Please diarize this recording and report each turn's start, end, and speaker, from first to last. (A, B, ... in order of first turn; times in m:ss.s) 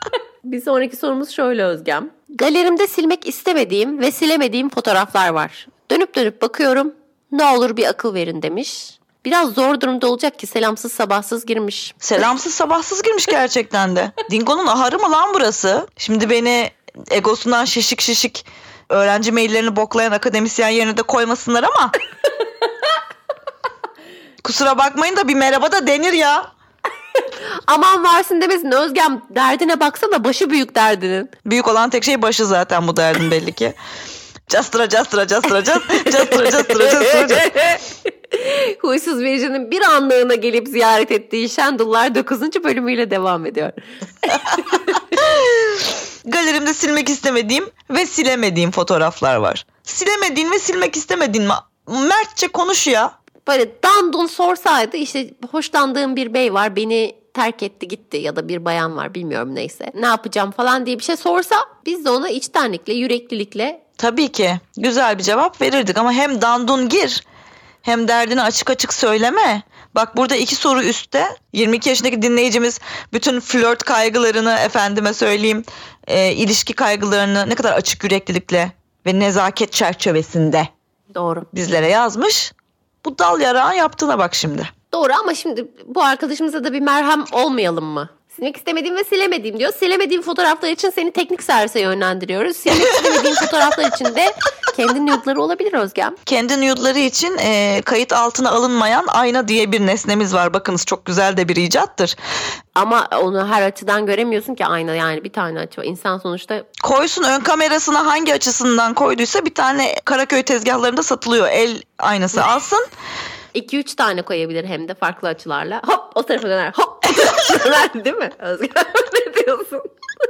0:00.4-0:12.0 A
0:12.0-0:22.0 B
0:24.4-0:26.5 B
0:27.7-0:31.3 A
0:31.4-0:33.8 B
0:34.5-0:37.6 B
0:36.2-0:45.0 A
0:45.1-0:53.1 B
0:53.5-1:03.8 A
1:04.0-1:07.2 B
1:07.8-1:20.7 B
1:21.1-1:21.5 A
1:21.5-1:22.5 B
1:23.0-1:24.7 B
1:24.9-1:36.2 A
1:36.2-1:42.2 B
1:42.8-1:46.7 A
1:46.8-1:52.9 B
1:53.5-1:59.9 A